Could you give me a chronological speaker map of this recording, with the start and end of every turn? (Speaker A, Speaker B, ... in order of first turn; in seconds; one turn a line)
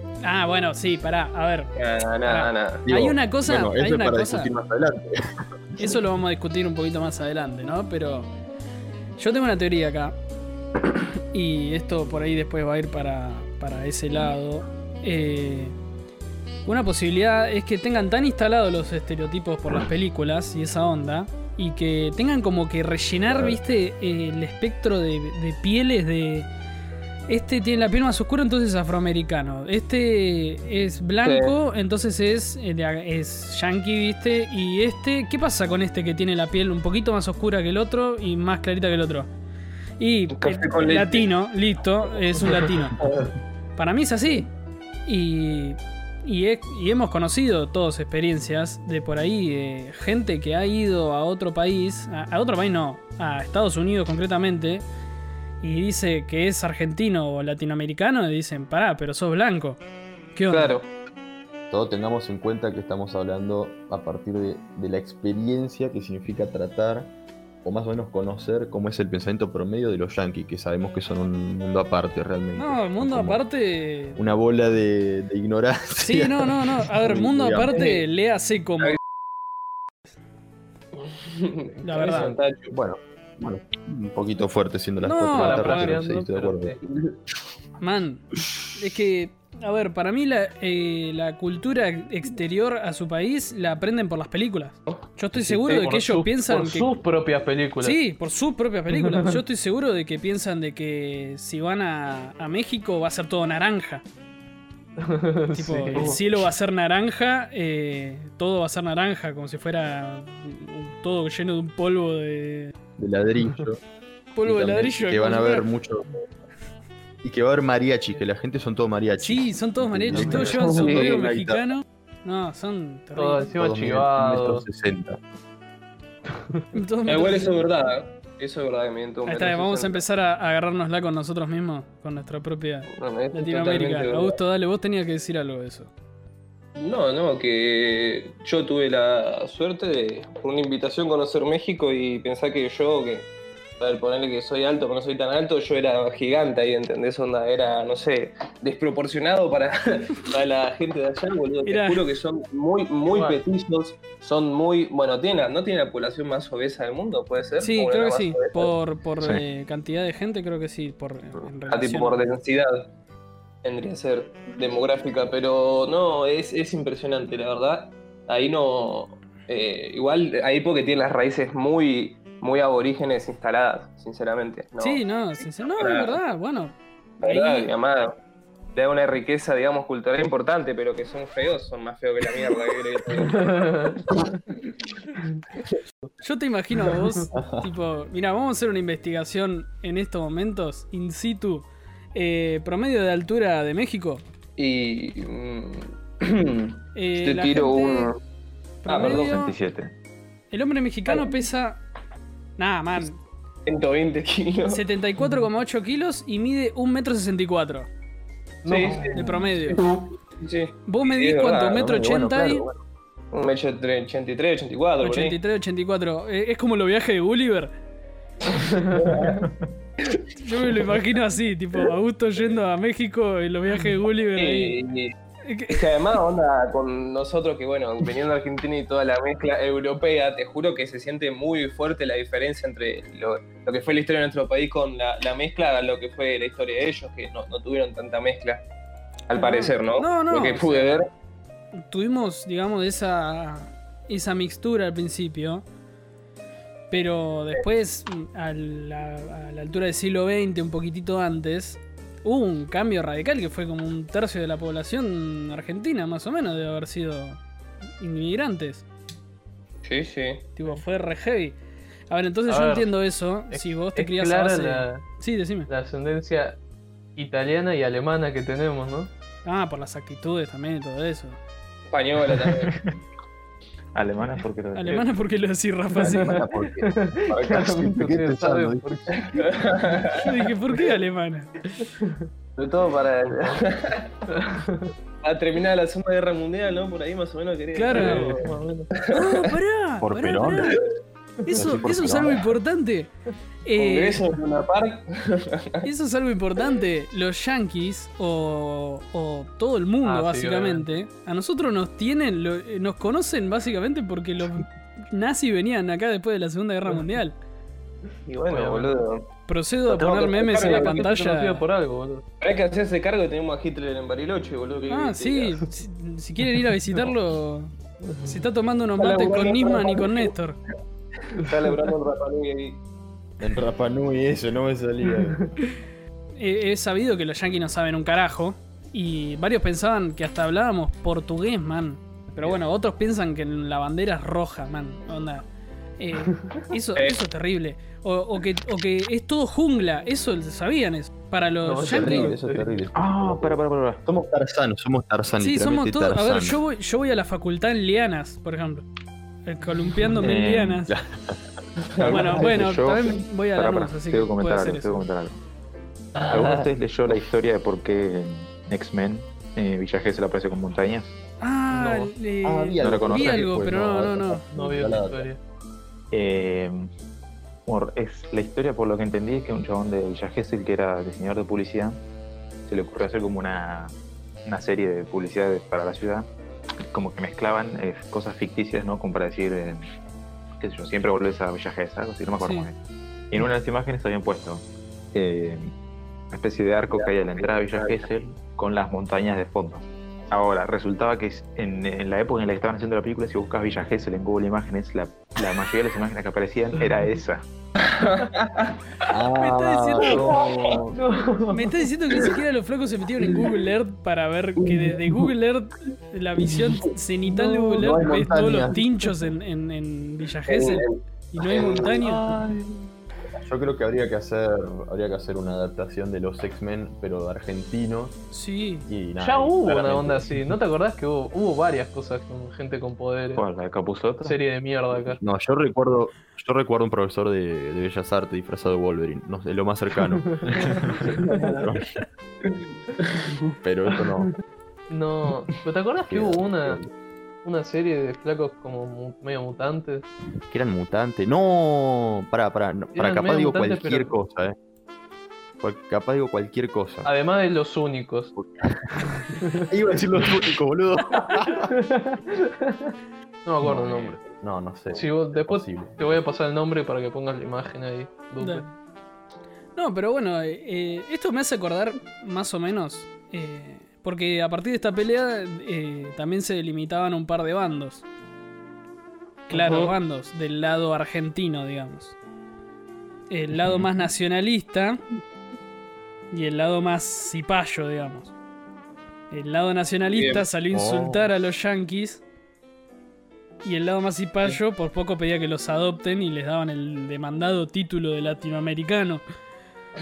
Speaker A: 0.2-1.7
Speaker B: 1.8-2.8
Speaker A: 2.2-4.5
Speaker C: 2.9-6.0
Speaker A: 5.8-8.3
Speaker A: 9.2-10.2
Speaker A: 11.3-15.7
Speaker A: 16.6-26.5
Speaker A: 27.3-39.3
Speaker B: 31.2-31.6
Speaker A: 40.0-43.0
Speaker B: 40.3-41.3
Speaker B: 43.0-43.3
Speaker A: 43.8-44.5
Speaker A: 45.0-54.8
Speaker A: 55.6-59.8
Speaker A: 60.3-60.8
Speaker B: 60.5-60.9
Speaker C: 61.7-67.1
Speaker C: 67.6-73.4
Speaker A: 72.5-74.2
Speaker C: 74.2-77.8
Speaker A: 76.0-79.0
Speaker B: 77.7-78.0
Speaker B: 81.0-82.7
Speaker A: 81.8-82.3
Speaker D: 81.8-82.4
Speaker C: 82.7-86.8
Speaker A: 85.0-86.0
Speaker D: 85.3-86.8
Speaker B: 86.9-87.1
Speaker A: 87.8-88.2
Speaker A: 88.7-96.9
Speaker D: 95.4-98.0
Speaker A: 97.8-104.0
Speaker D: 98.9-99.4
Speaker D: 105.0-106.2
Speaker A: 105.5-112.7
Speaker C: 113.0-113.8
Speaker A: 114.3-115.7
Speaker C: 114.4-116.1
Speaker C: 117.2-121.7
Speaker A: 119.2-123.5
Speaker D: 120.1-120.6
Speaker B: 120.6-121.2
Speaker D: 123.2-124.6
Speaker C: 123.5-125.2
Speaker D: 126.3-126.7
Speaker A: 126.7-127.6
Speaker B: 127.1-130.0
Speaker A: 129.2-135.9
Speaker B: 132.9-134.4
Speaker B: 136.8-143.3
Speaker B: 143.8-158.7
Speaker A: 151.6-152.0
Speaker D: 153.1-153.4
Speaker A: 157.6-162.2
Speaker B: 161.7-162.9
Speaker B: 163.6-175.0
Speaker A: 174.8-177.7
Speaker B: 175.7-176.2
Speaker B: 177.2-178.1
Speaker B: 178.7-184.1
Speaker D: 183.2-184.2
Speaker A: 186.2-194.2
Speaker C: 187.3-187.7
Speaker B: 194.6-198.2
Speaker A: 196.9-198.1
Speaker A: 198.8-199.6
Speaker B: 198.9-199.3
Speaker E: 199.0-199.9
Speaker A: 200.5-201.8
Speaker A: 202.6-203.2
Speaker B: 203.7-204.8
Speaker A: 204.7-207.9
Speaker D: 208.6-209.4
Speaker B: 208.6-211.9
Speaker A: 209.0-209.8
Speaker A: 210.9-212.7
Speaker C: 211.7-212.8
Speaker B: 213.3-215.4
Speaker A: 215.0-217.7
Speaker B: 218.6-219.4
Speaker B: 220.0-221.0
Speaker A: 220.4-224.8
Speaker B: 224.3-225.1
Speaker A: 225.4-225.9
Speaker B: 225.7-238.6
Speaker B: 239.3-241.1
Speaker A: 239.3-241.0
Speaker A: 241.7-245.6
Speaker A: 246.9-257.4
Speaker A: 258.0-258.8
Speaker B: 259.8-260.5
Speaker A: 260.6-261.6
Speaker A: 262.1-265.7
Speaker D: 262.5-262.9
Speaker D: 263.5-265.0
Speaker D: 265.7-266.6
Speaker D: 267.1-269.1
Speaker A: 269.4-271.4
Speaker B: 271.9-272.8
Speaker E: 272.5-272.9
Speaker E: 273.9-275.2
Speaker A: 274.7-276.4
Speaker C: 275.9-279.6
Speaker D: 276.0-279.4
Speaker B: 277.3-277.7
Speaker B: 279.2-280.3
Speaker A: 280.1-281.5
Speaker D: 281.8-282.3
Speaker B: 282.6-284.1
Speaker D: 284.3-284.9
Speaker B: 285.2-289.5
Speaker A: 287.7-288.4
Speaker D: 287.9-288.9
Speaker A: 289.1-290.8
Speaker C: 290.0-290.8
Speaker A: 291.4-293.1
Speaker C: 291.5-292.4
Speaker A: 293.6-294.2
Speaker B: 293.8-295.9
Speaker A: 295.8-307.4
Speaker D: 300.0-300.8
Speaker B: 308.3-309.3
Speaker D: 308.5-309.0
Speaker A: 309.5-311.6
Speaker B: 309.9-311.1
Speaker D: 310.4-312.2
Speaker B: 312.4-315.6
Speaker A: 314.9-317.7
Speaker D: 318.0-318.4
Speaker A: 318.2-320.6
Speaker B: 319.0-320.3
Speaker B: 321.3-322.8
Speaker C: 323.4-325.4
Speaker D: 325.2-325.5
Speaker A: 326.4-335.5
Speaker A: 336.0-342.4
Speaker D: 341.6-342.8
Speaker C: 341.8-346.6
Speaker E: 342.9-344.0
Speaker A: 345.4-348.8
Speaker A: 349.4-350.9
Speaker E: 350.2-350.9
Speaker C: 350.9-351.4
Speaker B: 352.0-352.2
Speaker E: 352.0-355.4
Speaker C: 352.0-352.3
Speaker A: 352.0-355.1
Speaker E: 356.3-361.1
Speaker A: 361.4-364.4
Speaker D: 361.7-362.1
Speaker C: 362.4-365.3
Speaker E: 362.8-363.5
Speaker D: 364.5-365.4
Speaker E: 366.1-366.9
Speaker E: 367.6-372.0
Speaker E: 372.6-373.9
Speaker E: 374.4-376.3
Speaker E: 376.9-379.8
Speaker E: 380.6-382.8
Speaker A: 382.4-382.7
Speaker E: 383.3-385.7
Speaker E: 386.3-397.4
Speaker B: 386.9-387.9
Speaker B: 397.8-399.1
Speaker C: 399.1-401.0
Speaker A: 399.4-400.3
Speaker B: 400.1-400.8
Speaker D: 400.9-401.7
Speaker A: 401.5-412.3
Speaker B: 404.6-405.0
Speaker D: 407.4-408.0
Speaker C: 407.8-408.8
Speaker B: 410.5-412.0
Speaker D: 412.0-412.9
Speaker C: 413.4-418.2
Speaker A: 418.3-418.9
Speaker C: 418.9-420.4
Speaker D: 419.2-423.4
Speaker E: 423.3-424.4
Speaker D: 424.2-425.2
Speaker C: 425.2-432.0
Speaker D: 430.2-431.4
Speaker B: 431.2-431.6
Speaker B: 432.5-433.3
Speaker C: 433.6-434.3
Speaker D: 434.9-436.8
Speaker C: 436.1-436.9
Speaker D: 437.4-440.1
Speaker C: 440.5-444.6
Speaker D: 442.9-444.1
Speaker C: 445.6-447.1
Speaker D: 447.0-448.3
Speaker C: 448.4-451.7
Speaker D: 449.3-449.7
Speaker D: 451.6-452.9
Speaker D: 453.4-454.2
Speaker C: 453.6-456.2
Speaker D: 454.9-458.7
Speaker A: 458.4-458.6
Speaker A: 459.8-468.0
Speaker A: 469.5-472.2
Speaker B: 469.5-469.9
Speaker A: 473.3-475.0
Speaker A: 476.3-478.3
Speaker A: 479.3-482.2
Speaker B: 480.1-480.5
Speaker C: 480.7-481.3
Speaker A: 483.6-489.2